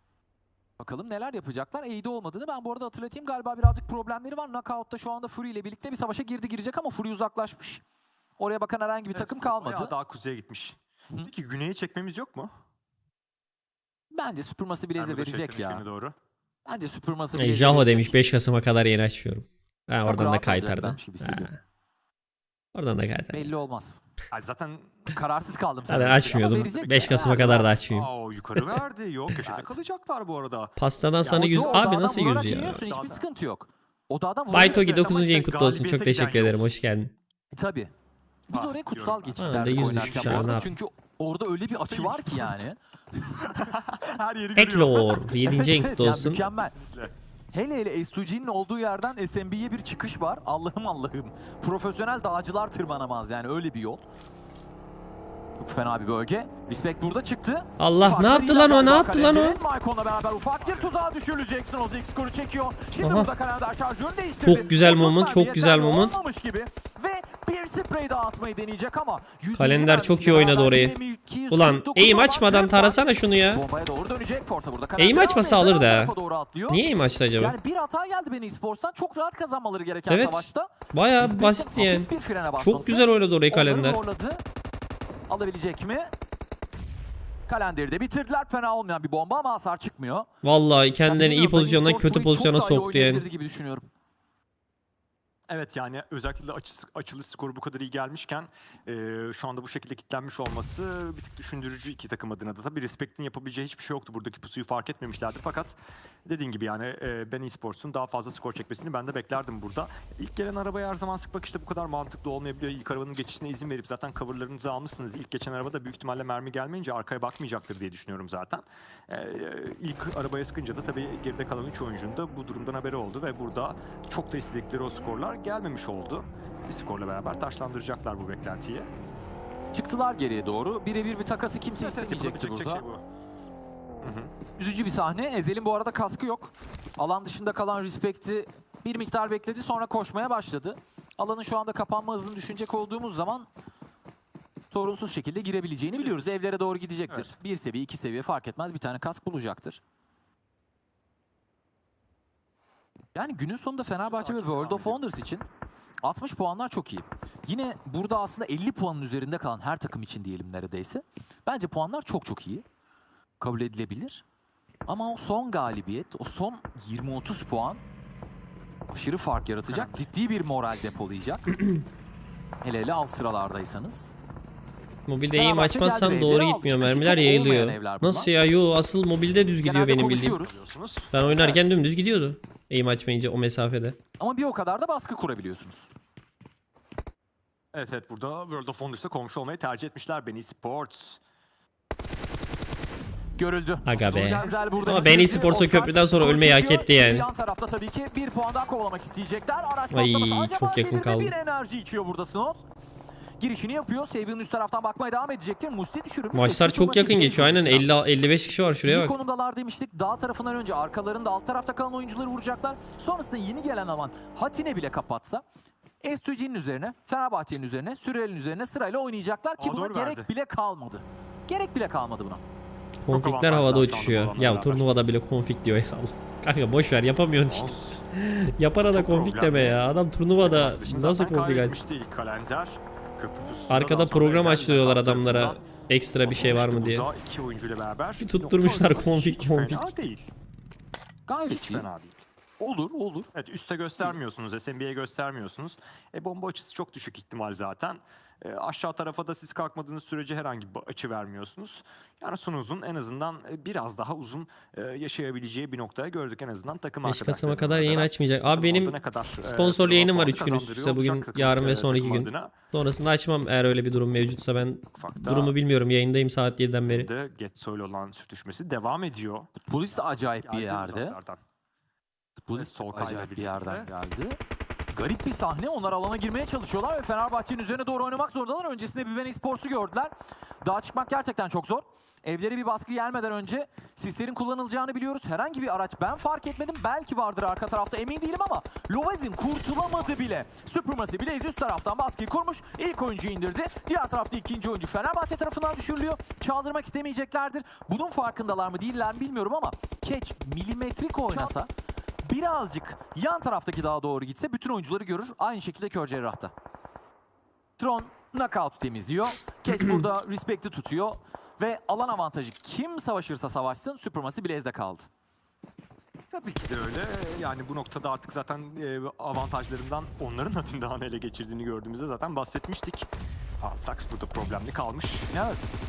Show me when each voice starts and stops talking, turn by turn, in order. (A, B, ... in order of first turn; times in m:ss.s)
0:00.8-0:07.8 A
0:08.4-0:09.9 A
0:09.1-0:12.5 B
0:14.1-0:15.8 A
0:15.0-0:16.1 B
0:16.6-0:18.2 A
0:17.3-0:21.6 C
0:20.0-0:21.5 A
0:22.7-0:23.5 C
0:23.3-0:24.0 A
0:24.3-0:25.1 B
0:25.1-0:27.8 A
0:25.8-0:33.2 B
0:25.9-0:28.8 C
0:30.8-0:32.8 C
0:31.3-0:34.9 A
0:34.5-0:37.1 C
0:34.5-0:36.6 B
0:37.5-0:37.9 A
0:38.5-0:42.8 A
0:38.5-0:40.6 B
0:39.4-0:40.7 C
0:41.9-0:42.6 B
0:43.3-0:45.4 B
0:44.6-0:46.4 C
0:45.4-0:46.7 A
0:46.3-0:47.1 B
0:47.5-0:54.0 A
0:55.6-1:16.8 A
0:57.8-0:59.6 C
1:00.6-1:00.9 B
1:03.0-1:03.3 C
1:04.4-1:06.2 C
1:09.6-1:10.9 C
1:11.5-1:13.6 C
1:15.0-1:16.1 C
1:16.7-1:17.5 C
1:17.4-1:24.4 A
1:20.1-1:24.0 C
1:25.3-1:26.1 A
1:27.5-1:30.3 A
1:30.4-1:33.2 C
1:31.1-1:33.8 A
1:35.5-2:08.9 B
2:09.7-2:12.8 A
2:11.7-2:13.0 B
2:14.0-2:14.3 B
2:14.6-2:23.5 A
2:24.7-2:29.8 A
2:25.9-2:26.2 B
2:33.1-2:35.4 A
2:34.0-2:35.0 B
2:36.0-2:42.6 A
2:43.4-2:44.2 A
2:44.9-2:47.8 A
2:48.9-2:51.6 A
2:49.7-2:50.0 B
2:52.6-2:54.2 A
2:55.1-3:00.4 C
2:55.3-2:58.3 A
2:59.6-3:00.7 A
3:00.0-3:01.2 B
3:01.1-3:04.0 C
3:01.3-3:01.8 A
3:04.2-3:05.9 A
3:07.7-3:11.2 B
3:13.4-3:22.6 A
3:13.8-3:17.2 C
3:14.0-3:15.4 B
3:19.9-3:21.3 C
3:23.4-3:27.9 A
3:26.3-3:29.1 C
3:28.8-3:35.4 A
3:36.0-3:42.4 A
3:39.6-3:40.3 B
3:43.0-3:51.8 C
3:43.1-3:45.0 B
3:47.5-3:48.0 B
3:48.9-3:49.8 B
3:50.4-3:55.6 B
3:53.7-3:57.1 C
3:56.2-4:00.3 B
3:58.2-3:59.9 C
4:01.3-4:01.9 A
4:01.5-4:02.2 B
4:02.6-4:03.3 A
4:03.3-4:22.5 B
4:17.0-4:27.1 C
4:24.9-4:25.5 B
4:26.9-4:31.4 B
4:29.6-4:31.2 A
4:32.4-4:34.4 A
4:32.5-4:33.9 B
4:34.9-5:01.7 A
5:02.2-5:06.5 A
5:07.8-5:15.1 A
5:09.7-5:10.0 C
5:16.3-5:25.3 B
5:25.3-5:25.7 A